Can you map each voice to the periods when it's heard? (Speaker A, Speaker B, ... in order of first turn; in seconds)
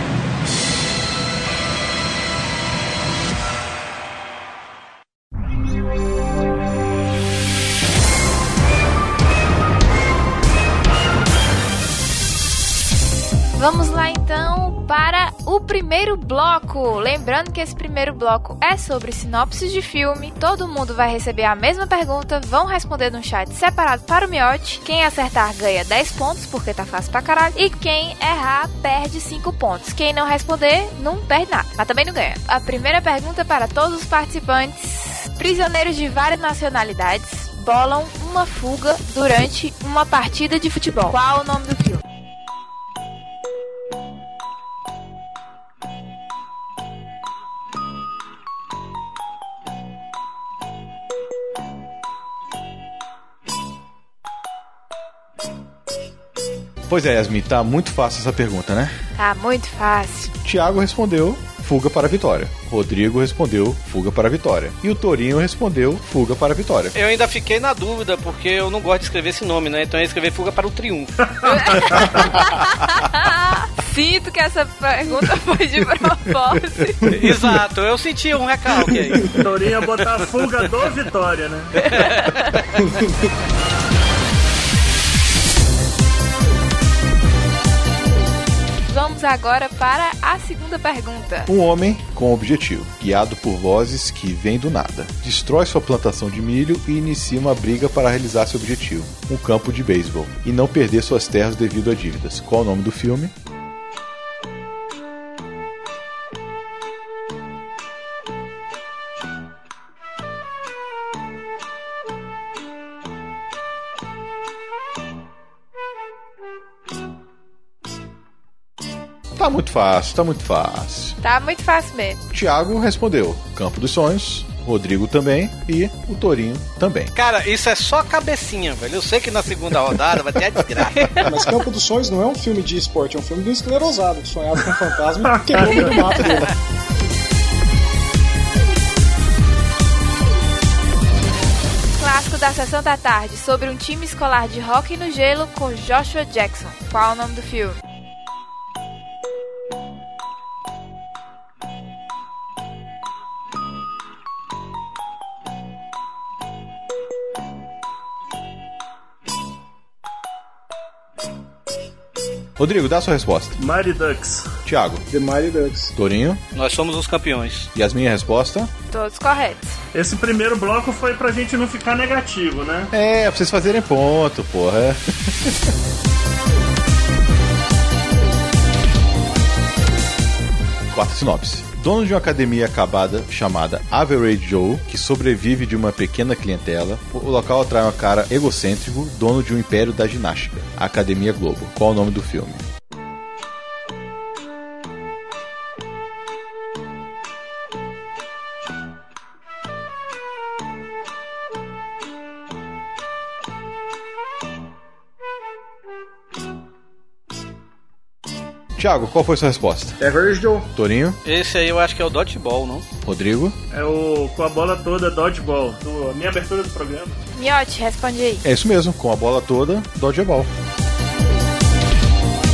Speaker A: 13.6-42.0, 59.2-60.3, 71.4-77.0, 82.0-82.5, 88.9-91.5, 121.2-122.2, 142.0-147.8, 168.9-169.8, 217.3-218.4
Speaker B: 56.9-58.9, 60.4-67.0, 91.5-103.3, 119.3-121.2, 122.3-127.1, 162.6-163.6, 164.6-165.0, 165.9-166.4, 167.7-168.7, 172.9-175.7, 180.9-192.6, 208.8-210.0, 210.7-211.2, 213.0-213.6, 218.4-220.5
Speaker C: 67.0-71.9, 77.1-79.4, 81.8-82.3, 127.1-131.2, 166.5-167.7, 211.2-212.8
Speaker D: 71.3-72.0, 79.4-81.7, 135.6-135.8, 163.6-164.6, 169.9-172.9, 213.7-217.2
Speaker E: 82.8-83.1, 131.2-136.5, 165.1-165.9, 210.0-210.7